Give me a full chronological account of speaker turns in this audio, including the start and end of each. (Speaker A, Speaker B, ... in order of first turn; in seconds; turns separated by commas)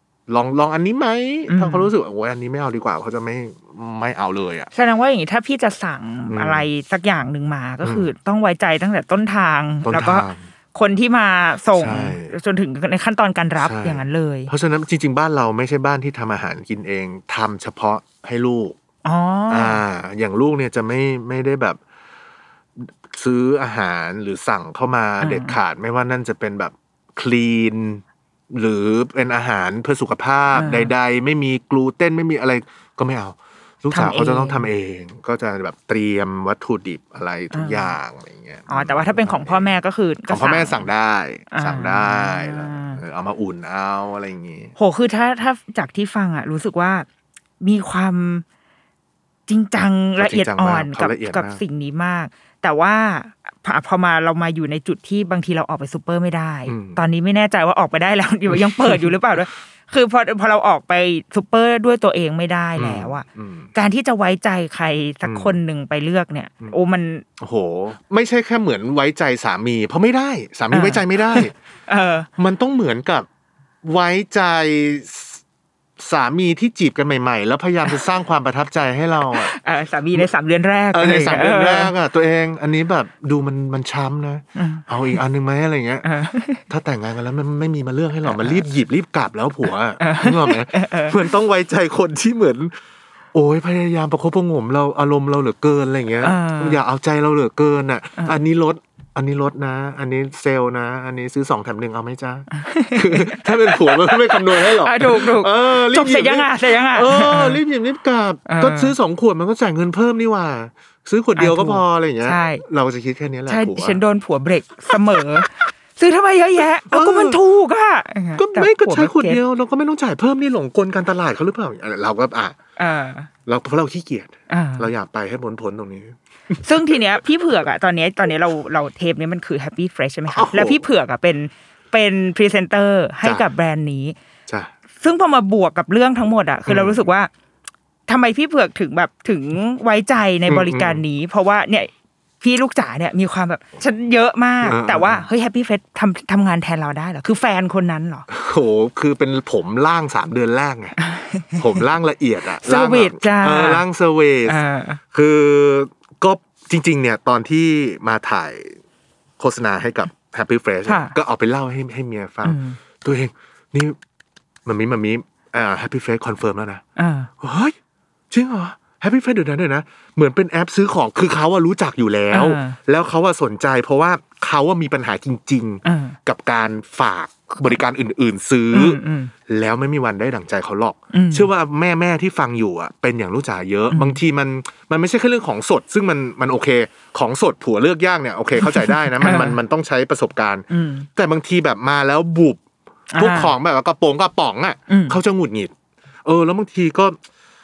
Speaker A: 0.3-4.7, Speaker B: 1.5-1.9, Speaker B: 4.7-14.5, Speaker A: 6.3-6.7, Speaker A: 7.8-8.1, Speaker A: 9.8-10.4, Speaker A: 11.7-12.3, Speaker A: 13.6-18.8, Speaker B: 19.0-19.8, Speaker A: 19.5-21.8, Speaker A: 22.8-39.7, Speaker B: 25.2-25.6, Speaker B: 30.5-30.9, Speaker B: 33.9-34.6, Speaker B: 37.5-37.9, Speaker B: 38.7-40.9, Speaker A: 40.3-44.7, Speaker B: 41.5-43.0, Speaker B: 44.8-47.0, Speaker B: 47.6-48.4, Speaker B: 49.5-67.2, Speaker A: 50.2-51.6, Speaker A: 56.7-57.0, Speaker A: 58.5-59.1, Speaker A: 62.8-63.7, Speaker A: 65.2-65.5, Speaker A: 67.4-71.5, Speaker B: 70.7-72.3, Speaker A: 72.4-73.3, Speaker A: 73.8-75.4, Speaker A: 76.0-79.5, Speaker B: 79.3-81.9, Speaker A: 80.9-86.1, Speaker B: 84.5-85.2, Speaker B: 86.0-86.6, Speaker A: 86.7-92.7, Speaker B: 88.2-88.6, Speaker B: 90.0-91.2, Speaker A: 93.3-114.0, Speaker B: 96.2-96.8, Speaker B: 102.5-107.6, Speaker B: 108.5-108.9, Speaker B: 111.3-112.6, Speaker B: 113.5-119.4, Speaker A: 114.9-115.5, Speaker A: 116.9-117.4, Speaker A: 118.3-122.5, Speaker B: 122.8-123.3, Speaker A: 123.5-127.0, Speaker B: 124.5-124.9, Speaker B: 126.6-134.1, Speaker A: 130.3-130.8, Speaker B: 135.0-137.3, Speaker A: 136.7-137.0, Speaker B: 138.1-148.3, Speaker A: 140.5-141.0, Speaker A: 144.6-145.2, Speaker A: 148.3-150.9, Speaker B: 151.0-151.8, Speaker A: 151.5-154.6, Speaker B: 152.6-153.8, Speaker B: 154.4-155.0, Speaker A: 155.1-158.8, Speaker A: 159.4-164.0, Speaker B: 160.8-161.1, Speaker B: 162.4-162.8, Speaker A: 164.6-166.8, Speaker B: 167.0-167.3, Speaker A: 167.4-167.8, Speaker A: 168.3-192.6, Speaker B: 172.3-172.8, Speaker B: 175.8-176.2, Speaker B: 178.7-179.3, Speaker B: 181.1-181.5, Speaker B: 183.9-184.2, Speaker B: 188.6-189.6, Speaker B: 190.7-191.1, Speaker B: 193.1-193.5, Speaker A: 193.2-195.7, Speaker B: 194.9-195.2, Speaker A: 196.2-197.2